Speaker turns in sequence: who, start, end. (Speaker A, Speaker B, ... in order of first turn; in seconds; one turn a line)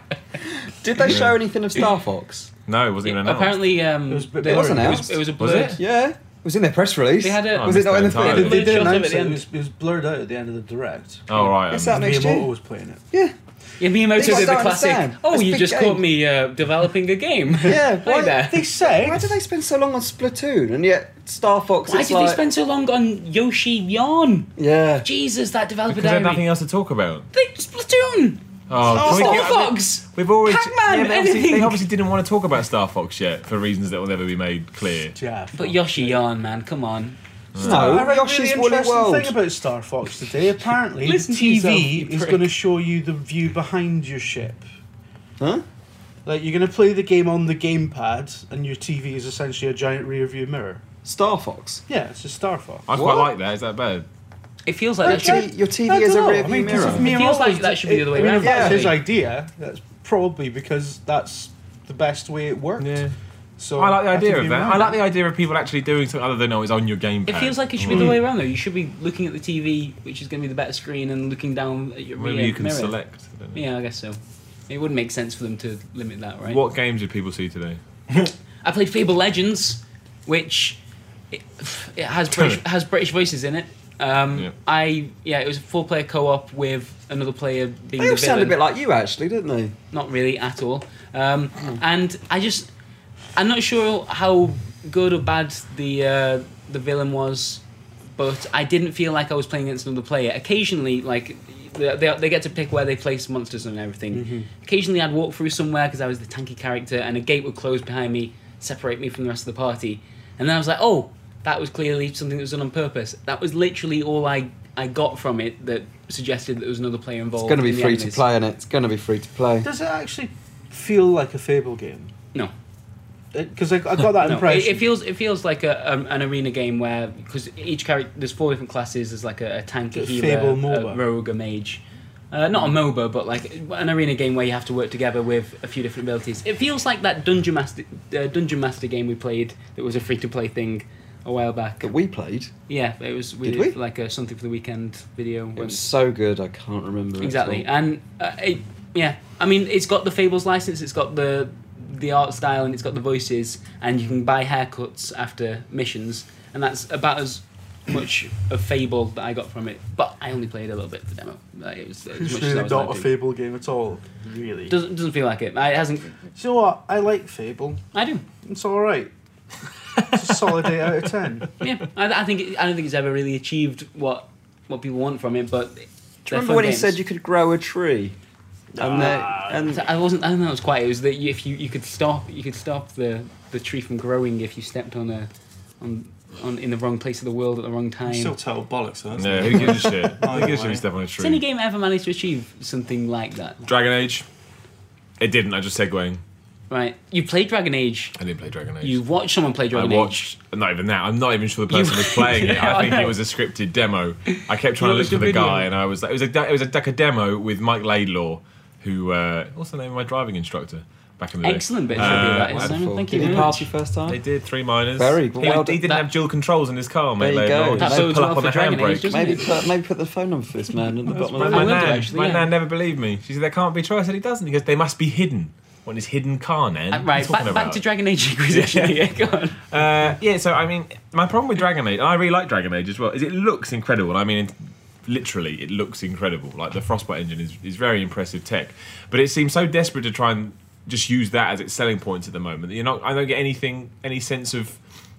Speaker A: 0.6-2.5
Speaker B: 1.0-1.3
Speaker B: 2.7-3.6
Speaker C: 3.0-5.8
Speaker D: 4.1-5.2
Speaker A: 4.5-5.1
Speaker B: 5.4-5.8
Speaker A: 5.7-8.8
Speaker C: 7.2-9.4
Speaker B: 7.5-8.9
Speaker D: 8.2-13.0
Speaker B: 11.3-12.0
Speaker A: 11.7-12.5
Speaker C: 13.8-18.7
Speaker A: 14.1-16.0
Speaker A: 17.6-22.4
Speaker D: 18.3-19.3
Speaker C: 21.9-24.5
Speaker A: 24.6-25.1
Speaker C: 25.0-26.5
Speaker B: 25.9-27.3
Speaker C: 27.3-31.8
Speaker B: 28.7-35.1
Speaker A: 28.8-29.5
Speaker D: 35.1-36.2
Speaker C: 35.5-37.2
Speaker B: 37.5-38.0
Speaker D: 37.6-44.6
Speaker A: 37.6-39.3
Speaker C: 41.0-42.5
Speaker A: 45.4-45.6
Speaker D: 46.2-50.8
Speaker A: 51.0-51.8
Speaker D: 51.9-52.8
Speaker B: 52.9-54.0
Speaker A: 52.9-53.3
Speaker C: 54.6-55.5
Speaker D: 55.0-63.1
Speaker A: 55.0-57.2
Speaker C: 56.8-59.0
Speaker A: 58.4-58.9
Speaker B: 62.8-63.1
Speaker D: 63.6-65.0
Speaker B: 63.7-68.2
Speaker C: 67.2-72.9
Speaker B: 72.2-73.6
Speaker C: 73.5-76.6
Speaker B: 76.4-77.8
Speaker C: 78.6-80.8
Speaker C: 81.3-88.6
Speaker B: 82.3-82.6
Speaker A: 88.0-89.7
Speaker C: 89.9-92.7
Speaker C: 93.3-97.6
Speaker C: 98.2-118.2
Speaker D: 104.1-104.5
Speaker A: 117.4-119.7
Speaker D: 119.6-122.1
Speaker D: 123.3-124.9
Speaker C: 124.2-141.9
Speaker D: 129.9-131.0
Speaker A: 141.8-142.5
Speaker C: 142.7-145.8
Speaker A: 143.4-143.7
Speaker A: 145.6-147.7
Speaker C: 147.2-163.1
Speaker D: 162.1-164.8
Speaker C: 164.7-166.2
Speaker D: 166.3-167.8
Speaker C: 167.9-168.2
Speaker D: 168.4-169.1
Speaker D: 170.0-171.5
Speaker C: 171.6-176.9
Speaker A: 176.2-178.2
Speaker D: 178.7-179.7
Speaker A: 178.8-179.8
Speaker C: 179.6-188.3
Speaker E: 188.1-190.8
Speaker B: 189.2-191.4
Speaker C: 191.2-193.6
Speaker B: 193.6-194.2
Speaker B: 195.2-196.2
Speaker C: 196.7-198.1
Speaker B: 198.2-199.0
Speaker C: 198.8-200.3
Speaker B: 199.7-219.3
Speaker C: 201.7-203.2
Speaker C: 204.3-205.7
Speaker C: 211.4-213.7
Speaker A: 211.9-214.2
Speaker A: 215.0-215.8
Speaker C: 215.4-216.0
Speaker A: 217.2-218.1
Speaker C: 217.8-219.4
Speaker A: 219.1-222.0
Speaker B: 221.1-227.8
Speaker C: 221.4-222.5
Speaker C: 226.9-229.6
Speaker B: 228.5-229.1
Speaker B: 229.6-234.5
Speaker B: 235.1-244.8